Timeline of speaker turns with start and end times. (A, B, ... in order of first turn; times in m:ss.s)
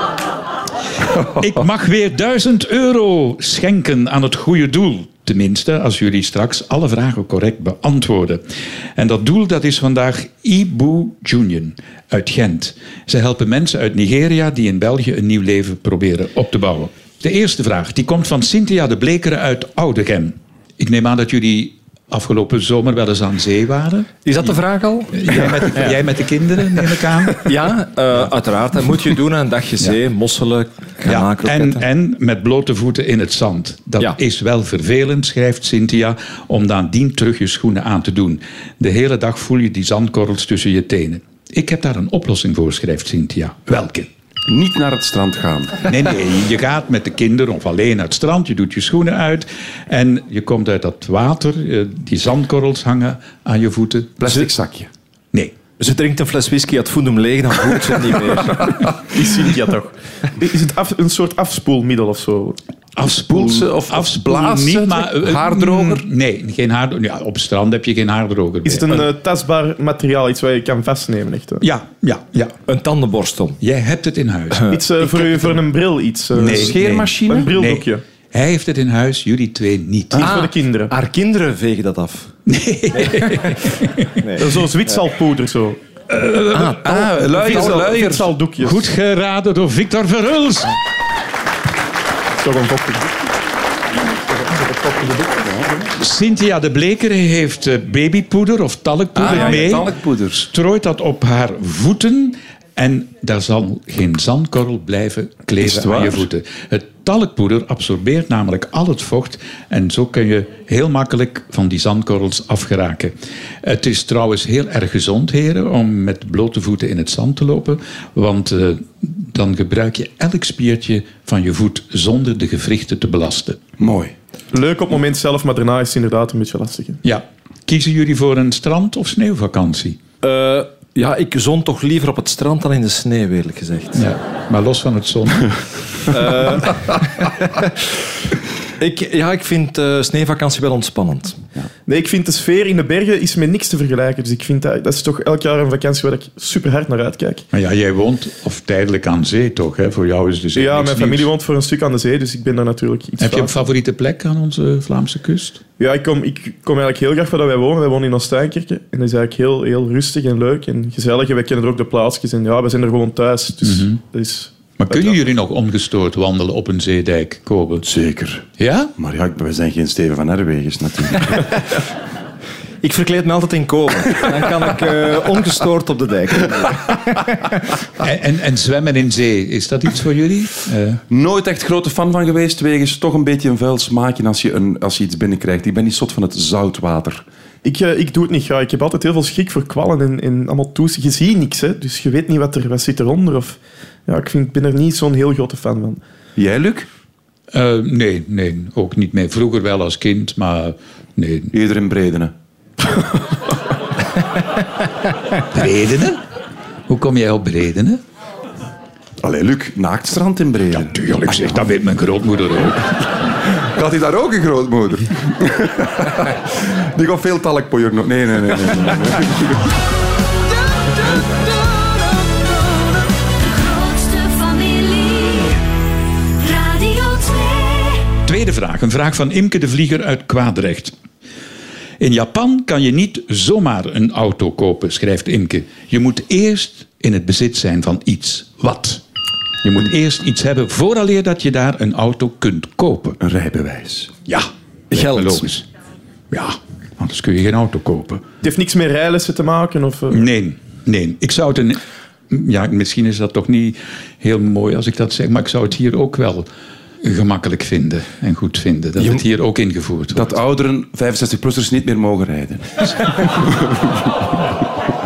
0:01.4-0:08.4 A
0:09.0-0:24.2 A
0:24.2-0:26.0 B
0:25.1-0:27.5 A
0:27.4-0:31.8 B
0:31.0-0:44.1 A
0:44.5-0:45.9 C
0:45.8-0:54.4 A
0:54.2-0:54.9 C
0:55.8-0:58.8 B
0:59.1-1:02.6 D
1:03.0-1:09.1 A
1:03.3-1:06.0 C
1:08.6-1:11.6 D
1:11.6-1:12.5 A
1:12.7-1:13.6 B
1:13.6-1:14.7 A
1:14.7-1:18.0 D
1:16.4-1:20.3 A
1:16.4-1:17.5 C
1:20.2-1:20.9 D
1:20.2-1:22.3 B
1:22.5-1:24.1 A
1:22.9-1:23.6 B
1:24.2-1:24.5 B
1:24.4-1:25.8 D
1:26.2-1:28.3 C
1:26.5-1:27.1 B
1:27.2-1:28.9 D
1:28.6-1:30.8 A
1:32.4-1:33.1 D
1:35.0-1:35.8 C
1:35.9-2:03.6 A
1:39.1-1:40.5 C
1:45.6-1:46.3 C
2:03.8-2:04.1 C
2:04.5-2:07.0 D
2:07.0-2:10.0 A
2:10.2-2:14.0 B
2:13.9-2:15.6 A
2:16.1-2:17.7 B
2:18.8-2:21.4 B
2:21.9-2:27.4 D
2:27.5-2:31.2 A
2:30.5-2:33.6 D
2:33.2-2:35.6 A
2:35.8-2:45.2 D
2:43.6-2:44.0 A
2:44.8-2:47.8 A
2:47.8-2:51.6 C
2:48.6-2:48.9 A
2:52.8-2:57.6 B
2:58.0-3:01.0 A
3:01.1-3:07.2 C
3:07.6-3:16.0 D
3:16.4-3:16.9 C
3:17.5-3:21.5 A
3:21.5-3:22.3 C
3:25.4-3:26.2 A
3:26.9-3:28.0 A
3:29.2-3:31.4 C
3:30.7-3:33.0 A
3:33.6-3:39.6 C
3:43.3-3:45.6 E
3:46.4-3:48.0 E
3:48.2-3:50.9 A
3:52.0-3:59.0 A
3:59.6-4:03.2 A
4:03.2-4:04.1 C
4:04.2-4:05.6 A
4:04.9-4:05.5 B
4:06.3-4:08.2 A
4:08.4-4:10.3 D
4:10.1-4:16.5 A
4:17.0-4:20.3 A
4:20.1-4:24.1 C